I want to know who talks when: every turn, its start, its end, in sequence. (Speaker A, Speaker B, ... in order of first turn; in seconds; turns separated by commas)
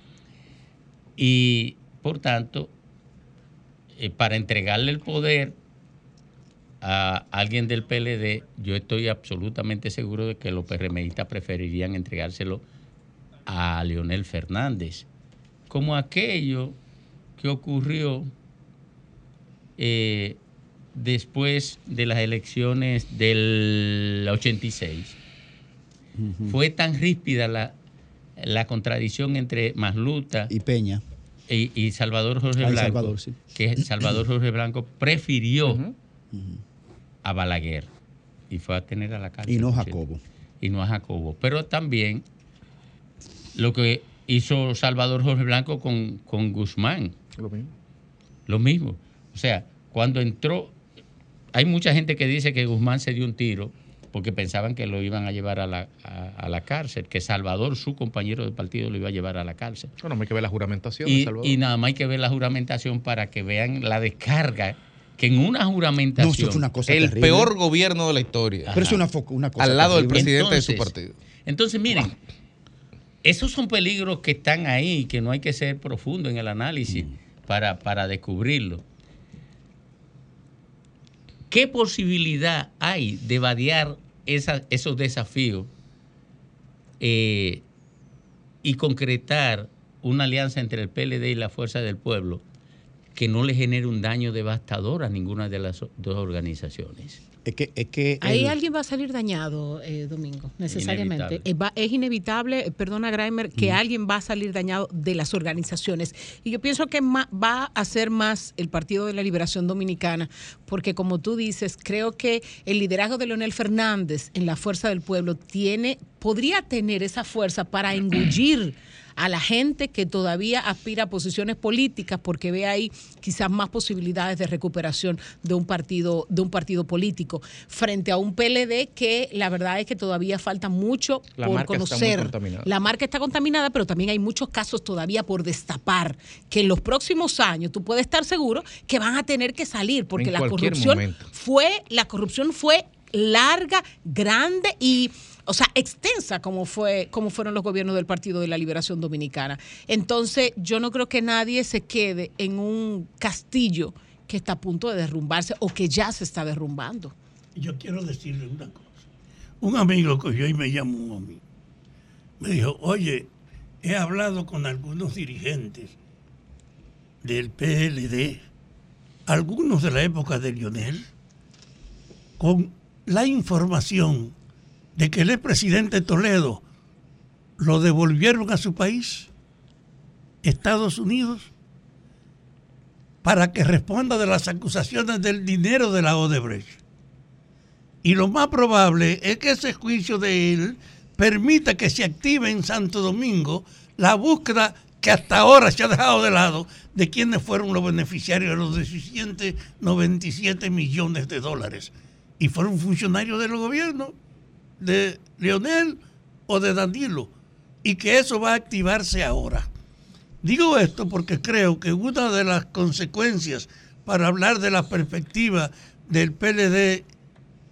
Speaker A: 1.2-2.7, Speaker A: 4.0-5.6, Speaker A: 6.8-12.6, Speaker A: 13.5-15.1, Speaker A: 15.7-16.8, Speaker A: 17.4-18.3, Speaker A: 19.8-20.4, Speaker A: 20.9-25.2, Speaker B: 26.2-26.6, Speaker A: 26.5-27.7, Speaker A: 28.4-30.5, Speaker B: 30.5-31.0, Speaker A: 31.5-35.8, Speaker B: 32.6-34.0, Speaker C: 35.6-35.9, Speaker B: 36.3-36.6, Speaker A: 37.2-37.9, Speaker A: 38.5-40.0, Speaker B: 39.5-40.2, Speaker A: 40.6-42.2, Speaker A: 43.5-47.1, Speaker C: 47.4-47.7, Speaker A: 48.5-50.7, Speaker A: 51.5-59.9, Speaker C: 60.0-61.6, Speaker A: 61.0-66.7, Speaker B: 66.2-67.5, Speaker C: 66.9-68.8, Speaker A: 68.6-69.0, Speaker B: 68.7-70.3, Speaker C: 69.6-71.1, Speaker A: 70.1-70.9, Speaker A: 71.5-72.2, Speaker A: 73.2-78.8, Speaker A: 81.5-85.7, Speaker A: 87.0-87.6, Speaker A: 88.6-92.4, Speaker A: 93.1-97.2, Speaker B: 97.4-98.5, Speaker D: 98.2-157.1, Speaker A: 100.7-101.4, Speaker C: 131.4-132.7, Speaker C: 140.2-141.3, Speaker E: 157.6-159.0, Speaker E: 159.6-161.4, Speaker E: 162.4-163.3, Speaker E: 163.8-165.9, Speaker E: 167.2-168.4, Speaker E: 169.3-171.1, Speaker E: 172.4-174.3, Speaker E: 174.9-176.6, Speaker E: 177.6-179.3, Speaker E: 180.4-181.5, Speaker E: 183.2-186.8, Speaker E: 188.0-204.1, Speaker E: 204.8-207.3, Speaker E: 207.8-209.7, Speaker E: 210.4-217.0